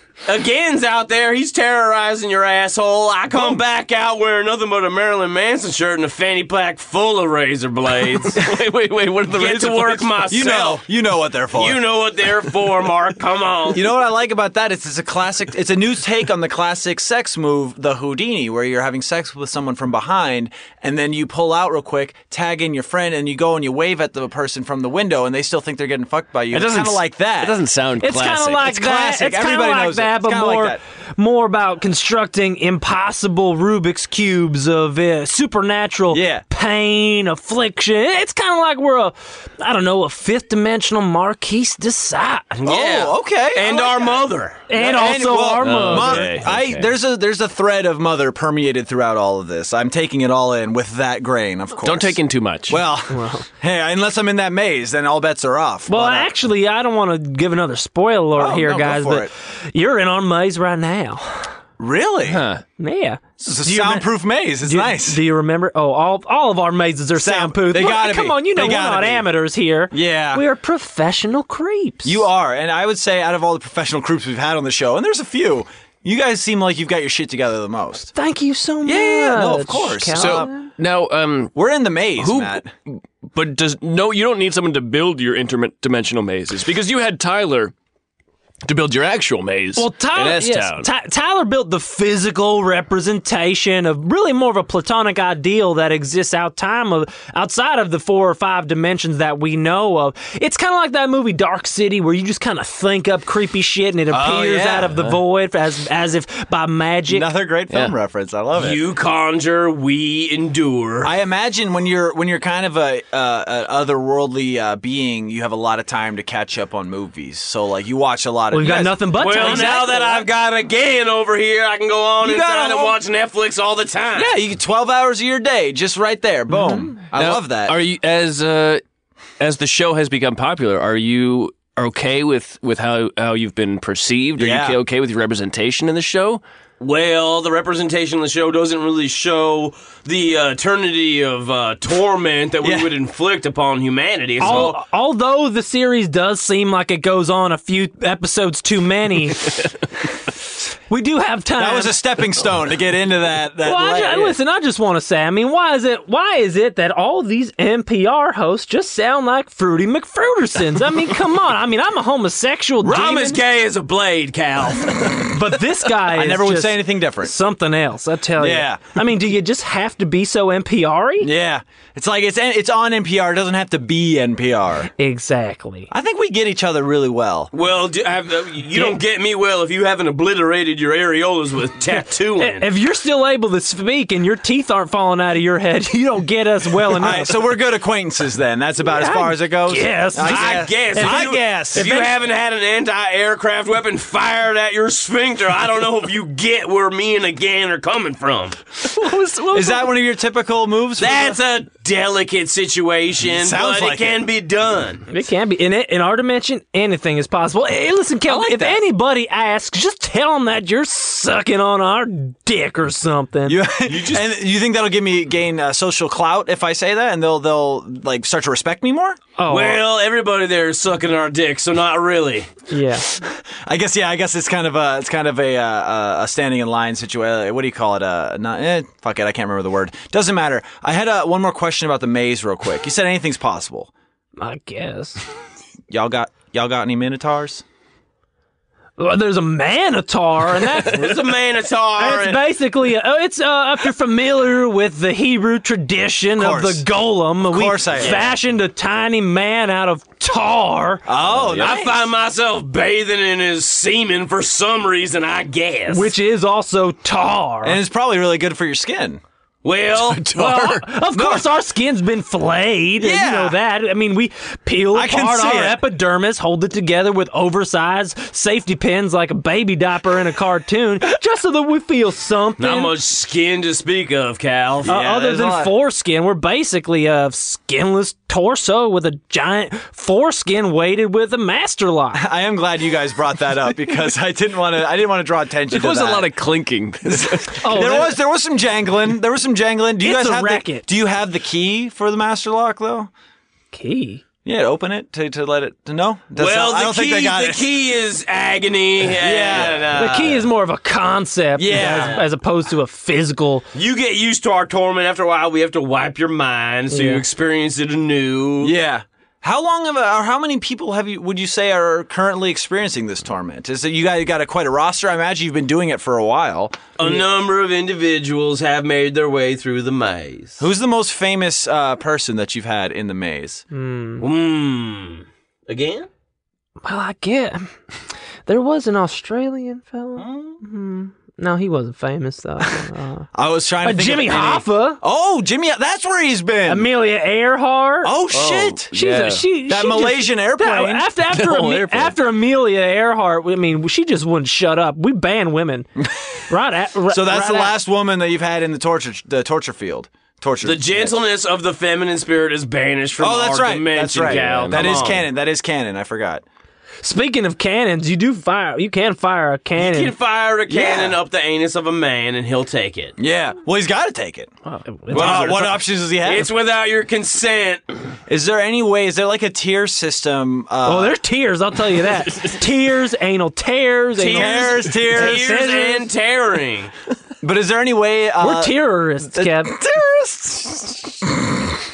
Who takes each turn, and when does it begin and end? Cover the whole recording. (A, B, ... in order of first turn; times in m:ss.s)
0:00.2-0:08.5 A
0:08.1-0:10.2 B
0:09.3-0:10.8 A
0:10.3-0:11.8 C
0:11.5-0:13.8 A
0:13.7-0:27.6 C
0:26.5-0:28.6 B
0:28.0-0:42.6 D
0:28.6-0:30.8 C
0:36.1-0:36.4 C
0:42.6-0:44.6 A
0:42.6-0:56.3 C
0:44.7-0:46.3 D
0:45.6-0:46.9 B
0:51.8-0:52.8 B
0:53.1-0:53.4 D
0:55.9-1:01.4 D
0:58.4-0:59.3 C
1:01.8-1:02.4 C
1:02.2-1:02.6 B
1:02.8-1:04.1 D
1:03.4-1:05.2 C
1:04.6-1:12.2 D
1:07.2-1:09.3 C
1:09.9-1:10.4 C
1:12.0-1:18.1 C
1:18.1-1:20.7 D
1:18.8-1:20.5 C
1:20.2-1:21.6 B
1:21.5-1:22.7 C
1:22.2-1:27.7 B
1:28.6-1:30.9 B
1:29.8-1:47.3 D
1:44.1-1:44.9 C
1:47.1-1:48.8 C
1:48.6-1:51.1 A
1:51.0-2:00.1 C
1:58.5-2:00.3 D
1:59.2-2:04.3 A
2:02.2-2:03.0 C
2:04.1-2:07.8 C
2:06.6-2:06.9 D
2:07.1-2:08.8 B
2:09.4-2:16.4 B
2:14.4-2:14.8 C
2:16.8-2:24.8 A
2:22.6-2:22.9 C
2:24.4-2:29.6 D
2:30.9-2:32.0 D
2:31.6-2:34.4 C
2:33.6-2:43.3 D
2:42.8-2:45.3 A
2:42.9-2:43.4 C
2:45.3-2:51.3 D
2:46.0-2:47.3 C
2:48.4-2:48.8 C
2:51.2-2:54.9 C
2:55.0-2:55.9 D
2:55.9-2:57.5 C
2:57.5-3:02.7 A
2:58.7-2:59.0 D
3:02.4-3:07.4 D
3:06.9-3:12.1 C
3:08.8-3:12.1 D
3:10.2-3:18.6 A
3:18.9-3:19.8 B
3:19.1-3:19.5 D
3:19.5-3:21.4 C
3:21.0-3:25.0 A
3:23.2-3:24.2 C
3:25.1-3:33.6 D
3:33.4-3:39.2 C
3:33.9-3:34.2 A
3:39.4-3:39.8 D
3:39.5-3:42.5 A
3:42.7-3:43.0 D
3:43.0-3:53.9 C
3:54.4-3:55.2 D
3:55.9-3:57.6 C
3:59.0-4:01.3 D
4:00.8-4:02.4 A
4:02.0-4:11.0 D
4:06.4-4:06.8 C
4:07.4-4:08.2 C
4:11.0-4:12.0 C
4:11.3-4:11.7 B
4:11.5-4:16.1 A
4:15.9-4:17.8 D
4:17.6-4:19.2 C
4:19.6-4:20.2 A
4:19.9-4:20.8 B
4:20.3-4:33.0 D
4:21.1-4:21.4 C
4:23.0-4:23.6 C
4:24.9-4:25.8 C
4:32.6-4:34.9 A
4:34.8-4:35.7 C
4:34.9-4:42.2 D
4:42.1-4:46.3 C
4:45.7-4:47.7 B
4:47.0-4:53.1 C
4:47.6-4:48.1 D
4:50.0-4:50.8 D
4:53.7-4:54.2 D
4:54.4-4:57.7 C
4:56.4-5:00.4 A
4:59.2-5:00.4 C
4:59.9-5:03.6 D
5:01.6-5:02.2 C
5:01.7-5:02.2 A
5:03.7-5:08.7 A
5:06.9-5:07.2 D
5:08.6-5:16.8 C
5:17.0-5:20.6 A
5:20.6-5:23.6 C
5:23.7-5:24.2 D
5:24.2-5:26.1 A
5:26.8-5:27.7 D
5:28.4-5:33.3 D
5:30.2-5:30.5 A
5:33.3-5:36.9 C
5:33.8-5:35.0 D
5:36.7-5:38.1 D
5:38.0-5:38.9 C
5:38.3-5:39.4 B
5:38.9-5:45.9 D
5:39.7-5:41.0 C
5:41.3-5:42.1 B
5:46.0-5:46.3 C
5:46.5-5:47.8 D
5:47.1-5:51.2 C
5:50.6-5:55.2 A
5:53.2-5:56.4 C
5:54.1-5:55.2 B
5:57.0-6:00.1 D
5:59.8-6:03.2 A
6:00.7-6:01.2 C
6:03.2-6:04.5 C
6:04.8-6:05.5 D
6:05.1-6:06.5 C
6:05.1-6:07.8 A
6:08.3-6:11.2 C
6:10.8-6:16.1 D
6:14.2-6:16.9 A
6:14.3-6:15.7 C
6:17.4-6:21.7 C
6:18.4-6:19.7 D